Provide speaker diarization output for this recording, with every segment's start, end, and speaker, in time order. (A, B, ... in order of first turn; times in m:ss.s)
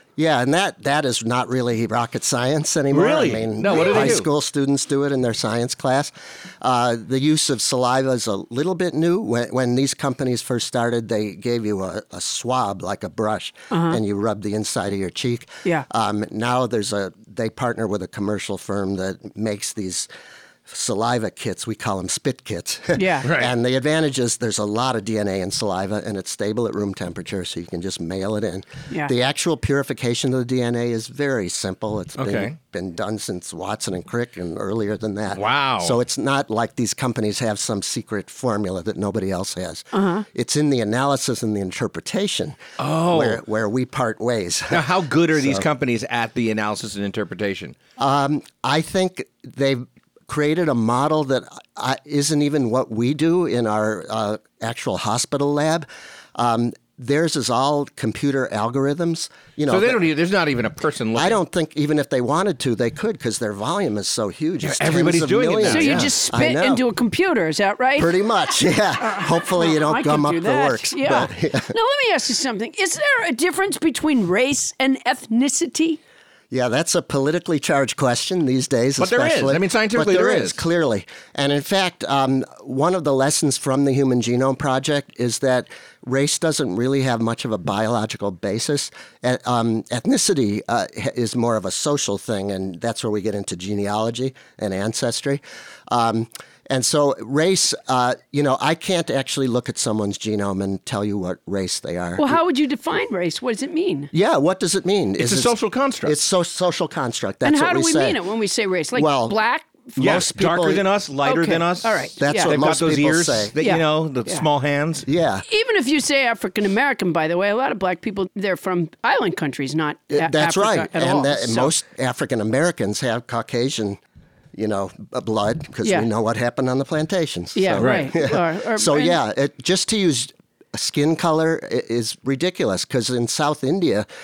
0:00.2-0:20.1 A
0:02.9-0:04.3 B
0:13.7-0:14.0 C
0:20.7-0:45.6 A
0:23.0-0:23.3 C
0:23.2-0:23.5 B
0:32.2-0:32.6 B
0:35.3-0:36.0 B
0:39.9-0:40.2 C
0:42.8-0:43.4 B
0:44.7-0:47.8 B
0:48.0-1:00.1 A
0:59.7-1:01.4 B
1:01.2-1:06.8 A
1:04.6-1:06.1 B
1:05.7-1:08.1 C
1:08.0-1:11.7 A
1:09.0-1:16.0 C
1:16.5-1:42.4 A
1:19.0-1:20.6 B
1:42.2-1:44.1 C
1:44.1-1:48.2 A
1:45.2-1:46.2 B
1:47.4-1:50.1 C
1:48.9-1:49.4 A
1:50.0-1:50.8 A
1:50.0-1:55.0 B
1:51.2-1:52.6 C
1:52.2-1:53.6 A
1:53.6-1:54.4 C
1:55.0-1:55.4 A
1:55.4-2:01.7 C
2:00.1-2:04.0 A
2:04.5-2:14.1 A
2:07.5-2:09.2 C
2:07.8-2:08.1 B